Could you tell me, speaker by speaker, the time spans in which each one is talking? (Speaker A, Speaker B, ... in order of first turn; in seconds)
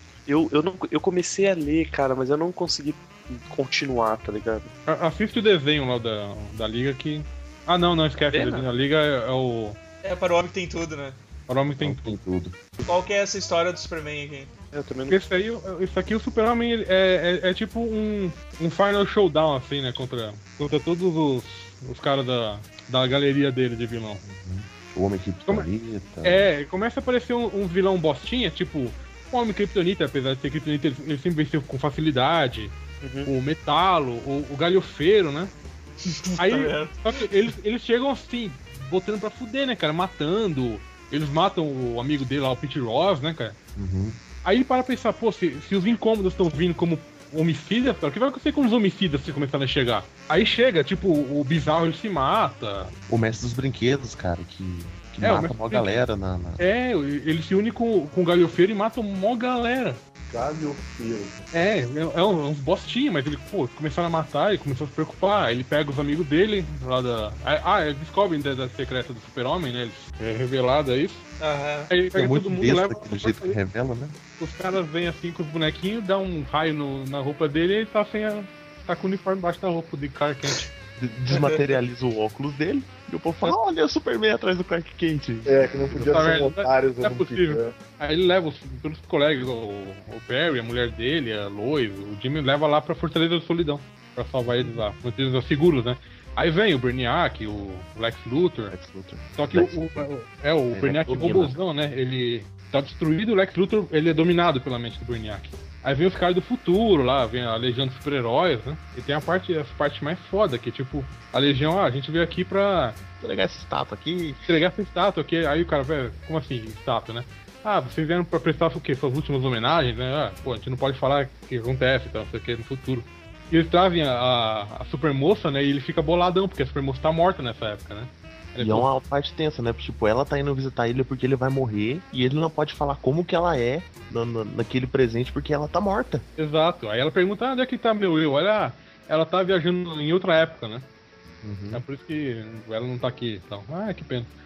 Speaker A: 0.3-4.7, 8.3-8.7, 14.7-15.2, 33.0-33.3
Speaker B: 4.9-9.8, 11.5-12.2, 15.1-24.2, 26.2-32.7, 33.2-35.5, 36.4-43.6, 44.4-52.9, 55.2-56.0, 56.6-60.0, 61.5-71.2, 71.9-73.6, 74.4-80.7, 86.1-98.8, 99.4-113.0, 114.5-128.9, 136.4-140.9, 141.7-144.3
Speaker C: 10.0-11.2, 12.9-14.5, 36.0-37.2, 71.4-71.9, 81.3-81.6
Speaker D: 11.8-12.6, 24.2-26.5, 43.8-44.2, 53.1-56.6, 72.1-74.2, 81.0-86.3, 94.5-94.8, 98.7-100.1, 100.7-101.6, 113.2-114.5, 128.6-136.2, 141.4-141.8
Speaker E: 60.3-61.4, 85.5-87.8